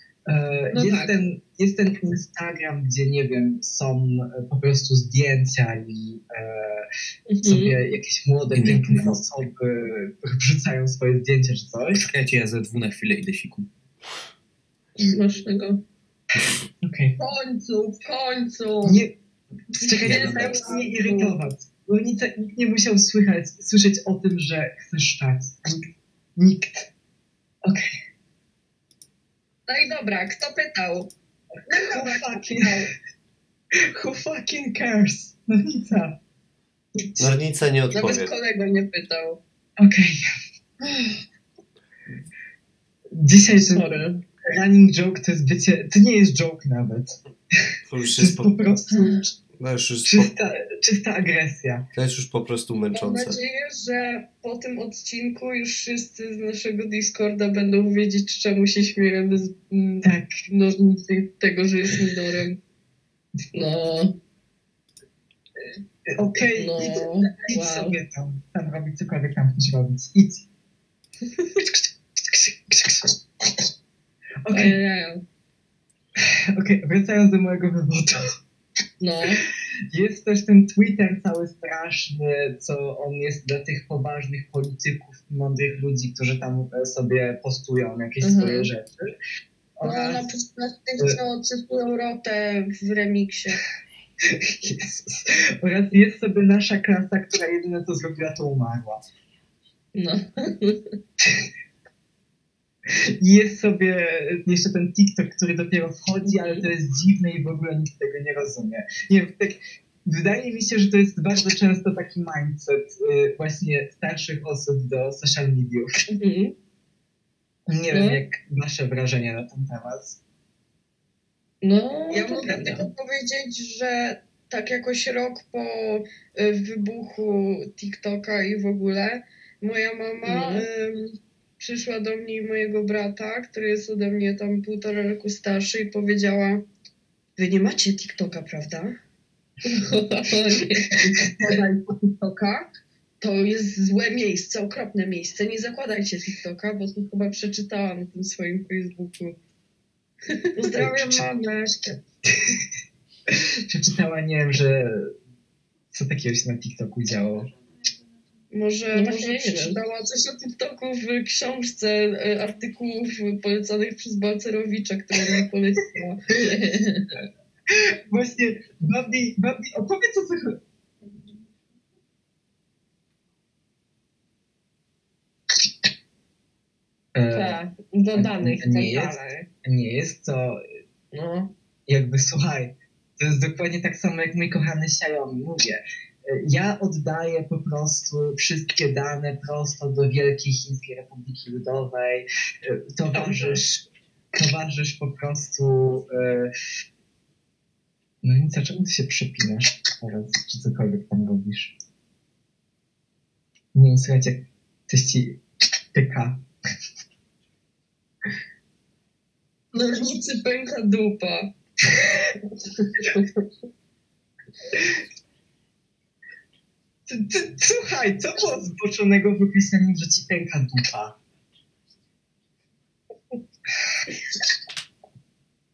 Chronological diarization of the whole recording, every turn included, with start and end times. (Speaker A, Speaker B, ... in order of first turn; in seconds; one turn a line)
Speaker A: 0.3-6.9
Speaker B: 0.7-1.2
Speaker B: 7.3-7.8
Speaker A: 7.4-12.1
Speaker C: 8.5-9.2
Speaker C: 12.0-13.7
Speaker C: 15.0-15.2
Speaker B: 15.0-15.8
Speaker A: 16.8-17.2
Speaker D: 17.2-19.0
Speaker A: 18.8-19.1
Speaker D: 19.8-21.4
Speaker A: 19.8-25.8
Speaker C: 20.0-20.7
Speaker A: 26.4-26.9
Speaker A: 27.6-27.9
Speaker D: 29.7-31.1
Speaker D: 31.7-32.9
Speaker A: 31.7-32.9
Speaker A: 33.9-36.2
Speaker E: 37.2-38.3
Speaker D: 37.9-39.4
Speaker A: 39.8-40.2
Speaker A: 43.1-47.2
Speaker B: 43.7-44.2
Speaker E: 47.9-48.6
Speaker A: 48.1-49.3
Speaker E: 49.6-50.3
Speaker A: 50.0-51.9
Speaker E: 51.9-53.4
Speaker D: 52.9-62.6
Speaker A: 60.0-60.3
Speaker B: 63.5-64.2
Speaker A: 66.1-70.5
Speaker B: 66.5-68.0
Speaker A: 71.5-73.2
Speaker A: 74.4-74.8
Speaker B: 74.5-75.2
Speaker A: 76.2-78.3
Speaker B: 79.0-79.4
Speaker A: 79.9-89.1
Speaker B: 88.2-88.7
Speaker A: 89.8-90.3
Speaker D: 89.8-93.6
Speaker A: 94.3-99.0
Speaker B: 99.9-100.8
Speaker A: 102.9-115.9
Speaker B: 106.2-106.7
Speaker B: 116.1-116.5
Speaker A: 117.7-120.2
Speaker B: 117.9-118.2
Speaker B: 121.6-122.9
Speaker D: 122.1-136.6
Speaker B: 130.2-130.7
Speaker D: 137.4-138.9
Speaker B: 139.6-141.0
Speaker A: 140.9-141.6
Speaker D: 141.4-142.7
Speaker D: 143.2-149.3
Speaker D: 150.5-152.0
Speaker A: 150.8-151.2
Speaker A: 152.3-152.6
Speaker A: 153.3-155.1
Speaker A: 155.9-157.5
Speaker D: 158.5-166.2
Speaker B: 158.9-159.8
Speaker B: 166.3-167.2
Speaker A: 167.7-170.6
Speaker A: 177.1-177.6
Speaker B: 177.3-179.5
Speaker A: 178.1-180.6
Speaker B: 181.1-181.5
Speaker A: 181.9-196.5
Speaker C: 193.1-193.6
Speaker A: 198.2-201.7
Speaker A: 203.7-205.4
Speaker A: 205.9-206.4
Speaker D: 209.7-211.5
Speaker A: 217.1-221.2